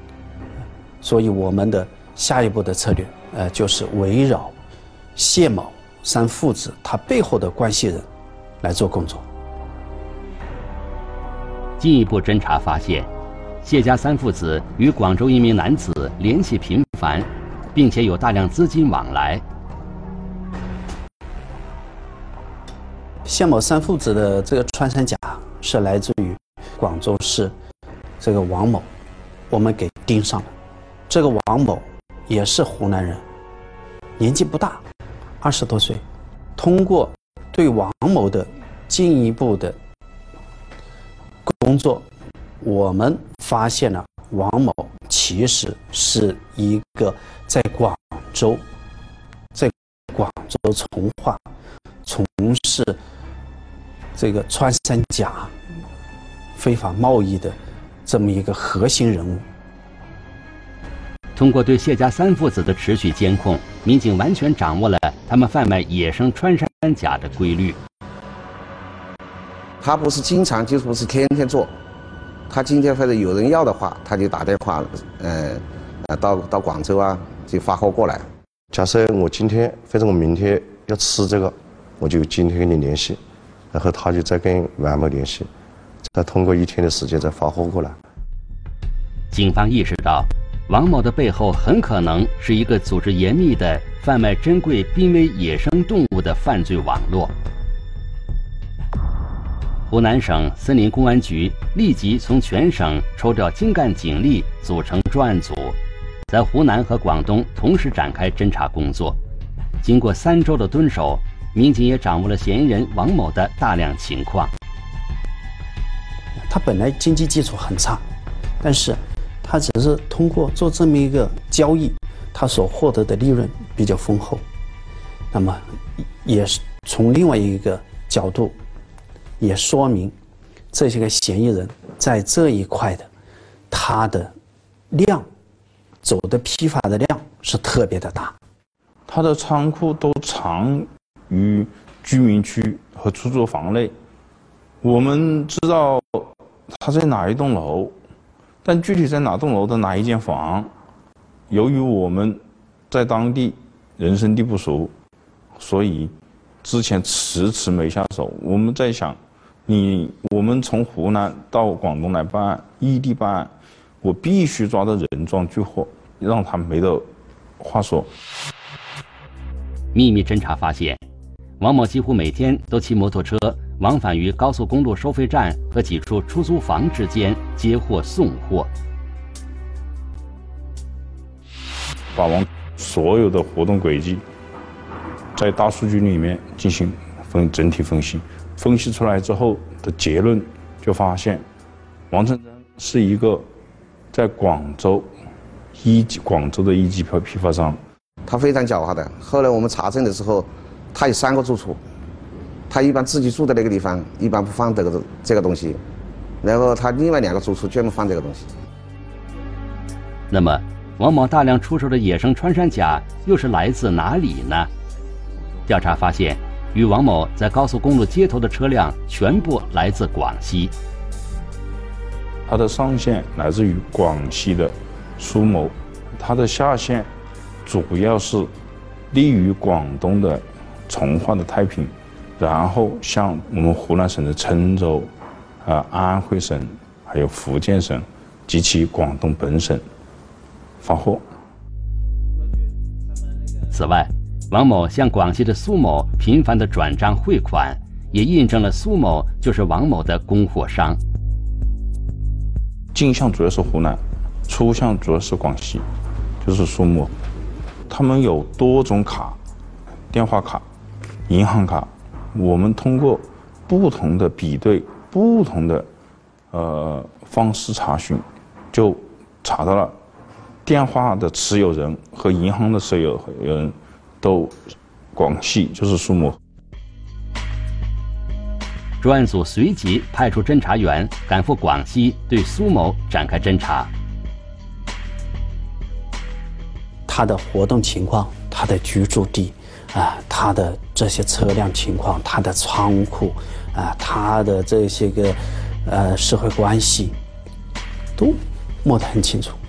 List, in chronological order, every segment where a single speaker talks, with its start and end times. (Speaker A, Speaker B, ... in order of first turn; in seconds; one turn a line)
Speaker A: 1.0-4.5
Speaker A: 5.1-8.1
Speaker A: 8.6-9.2
Speaker B: 11.8-13.1
Speaker B: 13.6-19.4
Speaker A: 23.2-27.5
Speaker A: 28.2-28.9
Speaker A: 29.5-30.5
Speaker A: 31.1-33.2
Speaker A: 34.2-34.8
Speaker A: 35.4-36.0
Speaker A: 36.5-39.8
Speaker A: 41.4-48.6
Speaker A: 49.5-51.5
Speaker A: 52.0-53.0
Speaker A: 54.1-55.5
Speaker A: 56.5-59.4
Speaker B: 61.3-67.8
Speaker C: 69.8-71.7
Speaker C: 72.5-78.3
Speaker D: 78.7-83.2
Speaker D: 83.7-85.5
Speaker D: 86.1-88.0
Speaker B: 89.3-97.3
Speaker B: 99.9-105.8
Speaker B: 106.3-109.2
Speaker B: 109.8-114.5
Speaker A: 116.4-118.0
Speaker A: 118.6-124.4
Speaker A: 125.3-128.6
Speaker A: 129.4-130.1
Speaker A: 130.7-133.1
Speaker A: 133.7-134.3
Speaker A: 134.9-135.3
Speaker A: 136.0-138.3
Speaker E: 139.1-143.9
Speaker E: 144.8-147.9
Speaker E: 148.6-150.7
Speaker E: 151.5-152.4
Speaker E: 152.9-154.9
Speaker E: 155.6-163.5
Speaker E: 164.0-167.1
Speaker E: 167.6-168.1
Speaker B: 169.9-171.0
Speaker B: 171.6-178.7
Speaker E: 182.1-184.2
Speaker E: 185.3-191.4
Speaker E: 192.1-193.5
Speaker E: 194.1-195.1
Speaker E: 195.8-197.8
Speaker C: 198.2-201.8
Speaker C: 202.7-205.8
Speaker C: 206.4-208.5
Speaker B: 210.3-214.7
Speaker B: 215.7-220.7
Speaker E: 222.5-227.1
Speaker E: 227.7-228.5
Speaker E: 229.1-235.1
Speaker E: 235.6-239.8
Speaker E: 240.8-241.2
Speaker B: 243.7-251.0
Speaker E: 252.9-255.8
Speaker E: 256.4-257.1
Speaker E: 257.9-259.4
Speaker E: 260.1-260.6
Speaker E: 261.3-265.9
Speaker E: 266.5-269.9
Speaker E: 270.6-276.4
Speaker B: 279.0-283.9
Speaker A: 287.1-297.1
Speaker A: 298.1-299.6